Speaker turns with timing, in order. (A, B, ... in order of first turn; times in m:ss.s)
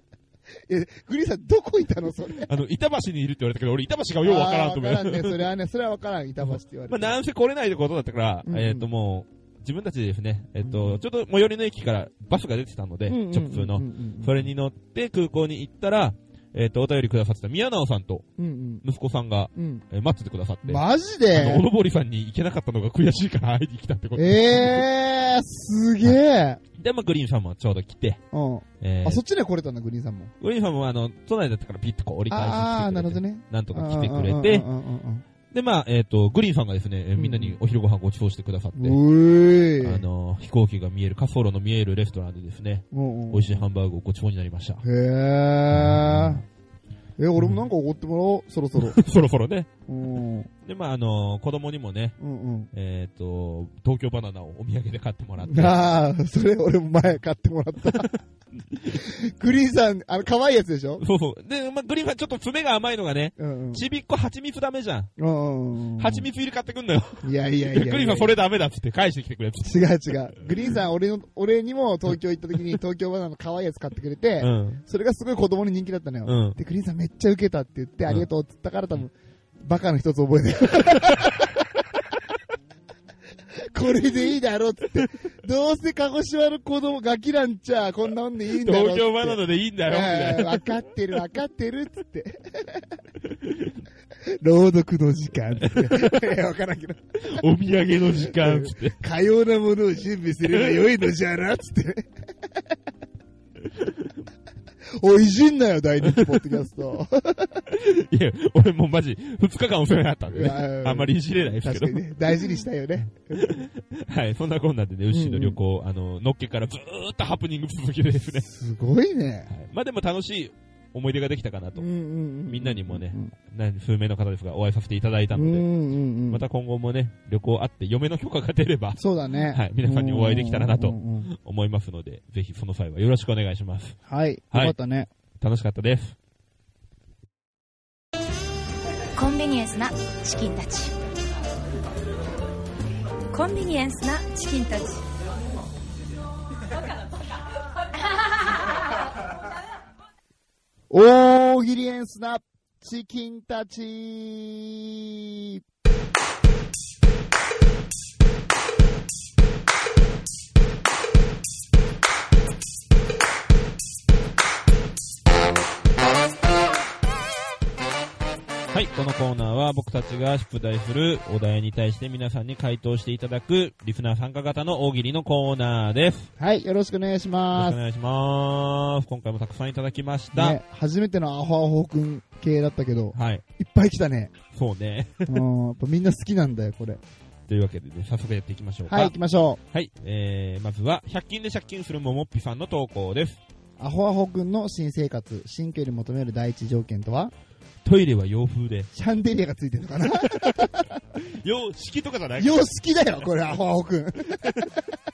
0:00.7-0:02.5 A
0:02.4-0:05.4 B
0:04.2-0:07.2 A
0:06.4-0:18.2 B
0:08.4-0:08.9 A
0:10.6-0:11.0 A
0:13.1-0:14.5 A
0:18.4-0:18.8 A
0:18.8-0:24.9 B
0:19.6-0:19.8 A
0:20.6-0:21.6 A
0:24.2-0:26.6 A
0:26.8-0:28.2 B
0:28.3-0:30.3 A
0:28.8-0:29.2 B
0:30.4-0:34.7 B
0:32.3-0:35.2 A
0:35.5-0:39.0 B
0:37.2-0:37.6 A
0:38.7-0:40.0 A
0:39.8-0:44.8 B
0:42.9-0:43.6 A
0:44.8-0:46.4 A
0:45.7-0:46.4 B
0:47.2-0:49.0 A
0:48.8-0:49.7 B
0:49.9-0:50.5 A
0:50.6-0:52.2 B
0:52.2-0:52.7 A
0:52.7-0:55.8 B
0:55.4-0:58.1 A
0:58.8-1:01.0 A
1:01.0-1:05.1 B
1:03.4-1:03.8 A
1:05.2-1:06.3 A
1:06.0-1:10.4 B
1:07.2-1:08.3 A
1:09.6-1:21.4 A
1:14.4-1:14.8 B
1:16.2-1:16.6 B
1:20.8-1:21.3 B
1:23.7-1:32.8 A
1:28.5-1:30.7 B
1:33.4-1:33.8 B
1:34.4-1:37.0 A
1:35.6-1:36.4 B
1:37.2-1:39.0 B
1:38.3-1:42.1 A
1:40.4-1:41.0 B
1:45.0-1:47.6 A
1:46.0-1:46.4 B
1:47.7-1:52.2 B
1:50.3-1:53.6 A
1:53.3-1:58.5 B
1:55.1-1:55.6 A
1:58.4-1:59.5 A
1:59.5-2:01.9 B
2:01.8-2:03.3 A
2:02.5-2:05.7 B
2:05.3-2:06.4 A
2:06.3-2:14.0 B
2:09.0-2:11.3 A
2:14.1-2:15.1 A
2:15.4-2:16.2 B
2:19.2-2:20.9 C
2:23.3-2:25.0 C
2:30.9-2:35.6 A
2:48.7-2:56.3 B
2:56.4-2:57.8 A
2:57.5-3:00.6 B
3:00.3-3:04.3 A
3:03.1-3:03.4 B
3:04.5-3:05.4 B
3:05.3-3:07.0 A
3:07.5-3:09.2 B
3:08.9-3:09.6 A
3:09.7-3:13.4 B
3:13.8-3:17.3 A
3:17.8-3:18.9 B
3:18.9-3:20.9 A
3:20.1-3:23.6 B
3:22.4-3:24.6 A